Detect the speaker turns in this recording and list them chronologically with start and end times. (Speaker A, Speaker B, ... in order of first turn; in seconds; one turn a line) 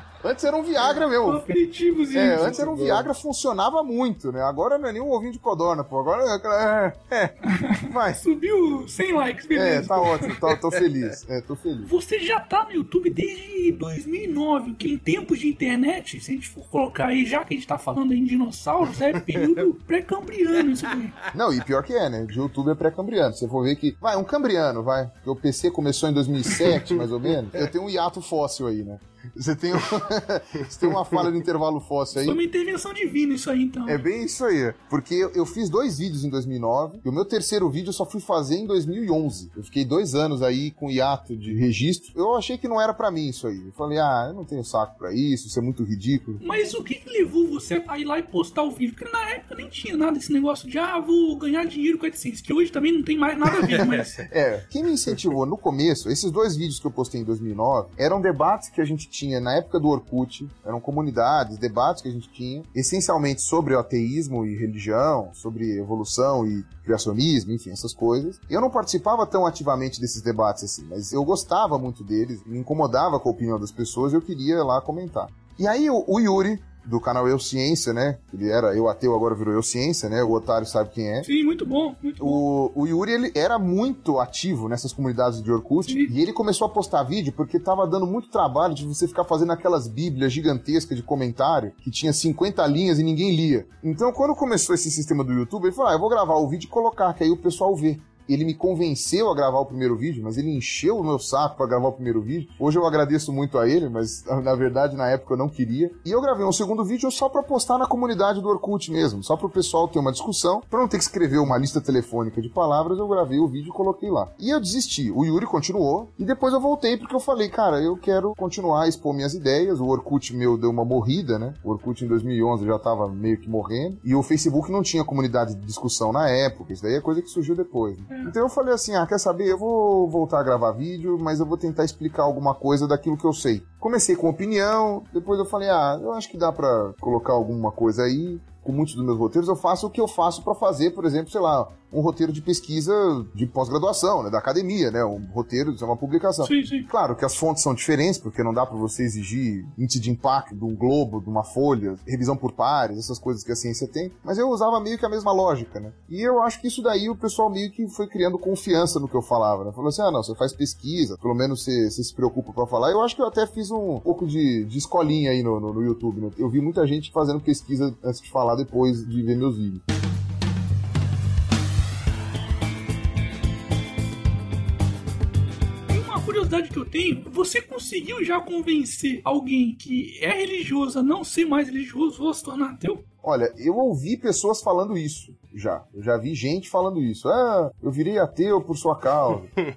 Speaker A: 0.2-1.5
Speaker B: 1.2-3.1
Speaker A: 2.1-8.2
Speaker B: 7.4-10.4
Speaker A: 9.5-11.9
Speaker B: 11.8-21.2
Speaker A: 21.3-32.4
Speaker B: 32.2-34.0
Speaker A: 33.9-46.4
Speaker B: 46.4-54.3
Speaker A: 53.6-81.3
Speaker B: 81.2-82.4
Speaker A: 82.2-169.8
Speaker B: 85.9-86.1
Speaker B: 128.1-128.3
Speaker B: 146.4-146.9
Speaker B: 175.9-183.1
Speaker A: 183.2-189.5